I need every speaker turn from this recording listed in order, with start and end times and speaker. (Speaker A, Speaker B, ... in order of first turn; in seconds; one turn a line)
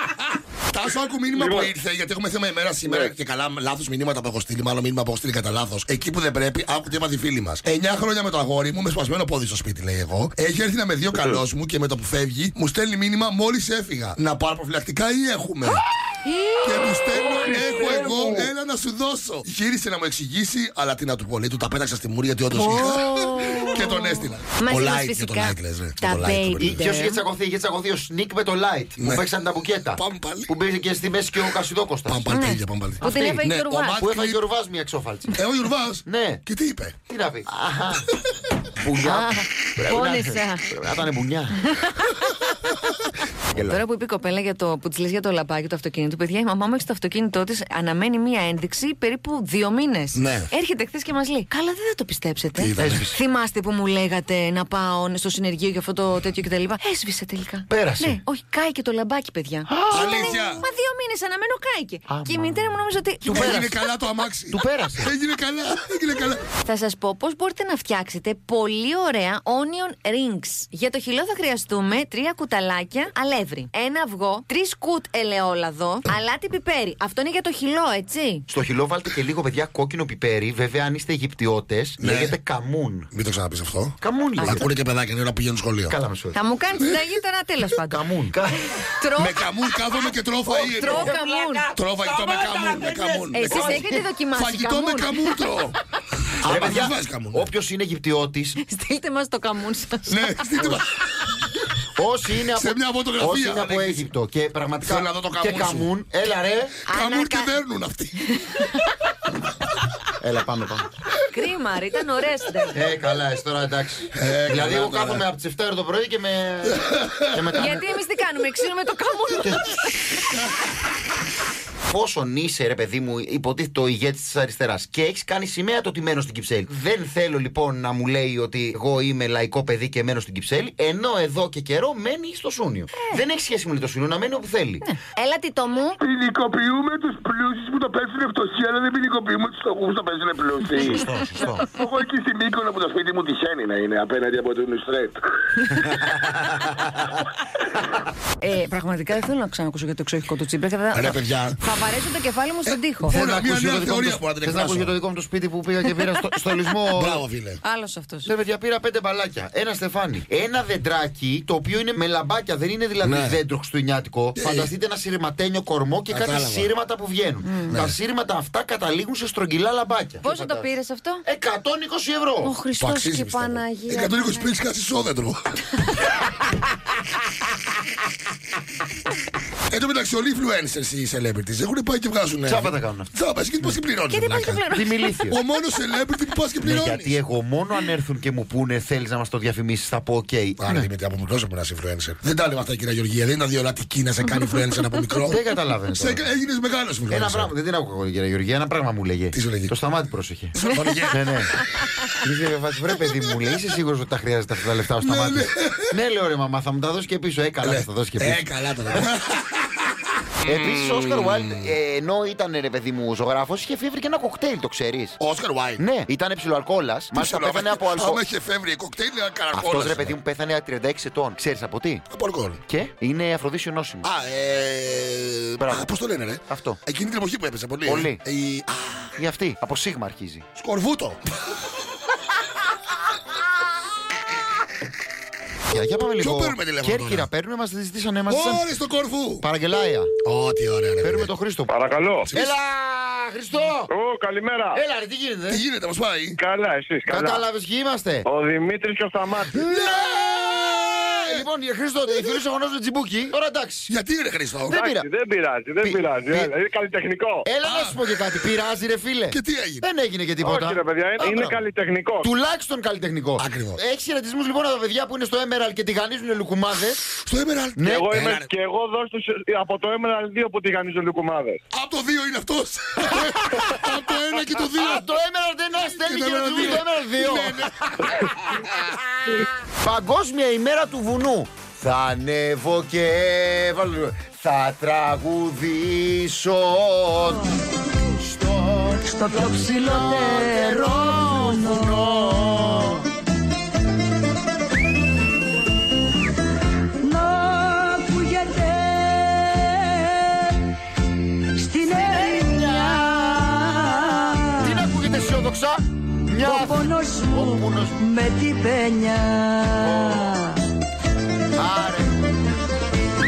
Speaker A: 0.7-15.8
Speaker B: 1.4-1.7
Speaker B: 2.9-3.1
Speaker C: 16.2-17.0
Speaker A: 16.6-26.8
Speaker B: 17.2-18.5
Speaker C: 22.5-27.2
Speaker D: 26.7-32.4
Speaker A: 29.0-29.3
Speaker A: 29.9-30.5
Speaker A: 32.1-34.4
Speaker C: 32.3-34.0
Speaker D: 33.0-35.4
Speaker A: 35.3-37.0
Speaker D: 36.1-36.4
Speaker D: 37.1-38.1
Speaker D: 38.7-41.6
Speaker C: 39.0-40.7
Speaker C: 41.6-42.3
Speaker D: 43.5-43.8
Speaker C: 43.5-63.7
Speaker A: 50.1-50.5
Speaker A: 52.6-53.0
Speaker D: 52.8-53.2
Speaker D: 57.7-58.2
Speaker D: 59.7-60.4
Speaker A: 59.9-60.6
Speaker D: 62.1-63.8
Speaker A: 63.3-66.4
Speaker D: 64.5-65.1
Speaker C: 66.6-78.5
Speaker D: 78.5-83.1
Speaker A: 82.0-82.3
Speaker A: 83.1-86.0
Speaker D: 84.0-84.7
Speaker C: 84.4-84.7
Speaker D: 85.9-86.4
Speaker C: 86.3-88.0
Speaker D: 87.9-88.7
Speaker C: 89.0-91.7
Speaker A: 89.2-91.1
Speaker D: 90.5-94.0
Speaker A: 91.7-95.8
Speaker C: 93.3-95.5
Speaker A: 96.4-97.5
Speaker D: 96.4-98.6
Speaker C: 98.6-100.5
Speaker A: 100.1-100.9
Speaker D: 102.0-106.8
Speaker A: 102.6-104.0
Speaker A: 104.9-105.9
Speaker C: 106.9-107.5
Speaker A: 106.9-108.2
Speaker C: 108.3-108.9
Speaker D: 110.2-110.9
Speaker C: 111.3-112.8
Speaker D: 112.7-117.9
Speaker A: 114.1-115.2
Speaker A: 116.7-117.4
Speaker C: 117.5-119.8
Speaker D: 121.8-134.8
Speaker C: 134.8-136.0
Speaker E: 136.0-146.0
Speaker D: 140.8-141.7
Speaker D: 146.2-146.8
Speaker C: 148.4-153.2
Speaker A: 150.9-151.6
Speaker A: 152.7-154.9
Speaker D: 153.1-157.2
Speaker A: 156.9-157.6
Speaker C: 157.6-158.3
Speaker D: 158.2-170.7
Speaker A: 163.0-163.4
Speaker A: 164.4-164.7
Speaker A: 166.1-166.7
Speaker C: 170.2-171.2
Speaker D: 171.2-172.6
Speaker C: 172.4-174.5
Speaker A: 172.8-175.4
Speaker A: 179.7-184.7
Speaker D: 182.5-183.1
Speaker C: 184.1-185.4
Speaker D: 184.7-185.4
Speaker A: 185.3-187.1
Speaker D: 186.6-190.9
Speaker A: 190.6-195.4
Speaker D: 195.2-196.3
Speaker A: 195.9-197.5
Speaker D: 197.1-201.6
Speaker A: 199.3-199.7
Speaker A: 200.6-201.3
Speaker D: 202.2-209.1
Speaker A: 205.0-205.9
Speaker A: 207.6-209.9
Speaker A: 210.4-211.7
Speaker D: 210.4-215.2
Speaker A: 215.2-215.8
Speaker D: 215.8-218.2
Speaker A: 217.1-220.1
Speaker D: 219.5-222.1
Speaker A: 222.1-222.6
Speaker D: 222.7-224.1
Speaker A: 224.0-229.1
Speaker D: 225.6-225.9
Speaker D: 226.5-226.8
Speaker D: 227.9-228.2
Speaker D: 229.2-230.5
Speaker A: 230.6-231.2
Speaker D: 235.7-238.7
Speaker A: 236.2-237.3
Speaker A: 238.3-239.4
Speaker D: 239.4-240.1
Speaker A: 240.2-241.3
Speaker D: 241.0-241.8
Speaker B: 241.7-242.3
Speaker D: 242.3-243.9
Speaker B: 243.9-244.8
Speaker D: 244.7-245.6
Speaker A: 245.5-246.4
Speaker B: 246.4-247.4
Speaker D: 247.1-248.3
Speaker B: 248.3-249.6
Speaker D: 249.5-253.9
Speaker A: 249.6-251.4
Speaker A: 253.9-254.8
Speaker D: 254.7-255.1
Speaker B: 254.7-257.5
Speaker D: 255.8-256.5
Speaker D: 257.4-261.6
Speaker A: 257.7-258.0
Speaker A: 259.3-259.9
Speaker B: 260.4-262.3
Speaker D: 262.2-267.1
Speaker A: 263.4-263.8
Speaker A: 267.2-268.5
Speaker D: 267.8-268.1
Speaker B: 267.9-271.6
Speaker A: 271.7-275.1
Speaker D: 274.7-277.7
Speaker A: 276.0-278.2
Speaker D: 278.9-293.1
Speaker F: 289.1-292.0
Speaker F: 297.1-300.0
Speaker F: 301.6-304.5
Speaker C: 301.7-302.4
Speaker D: 302.0-303.9
Speaker D: 304.5-308.1
Speaker F: 306.4-310.4
Speaker C: 308.2-309.0
Speaker D: 309.7-310.4
Speaker D: 311.5-312.4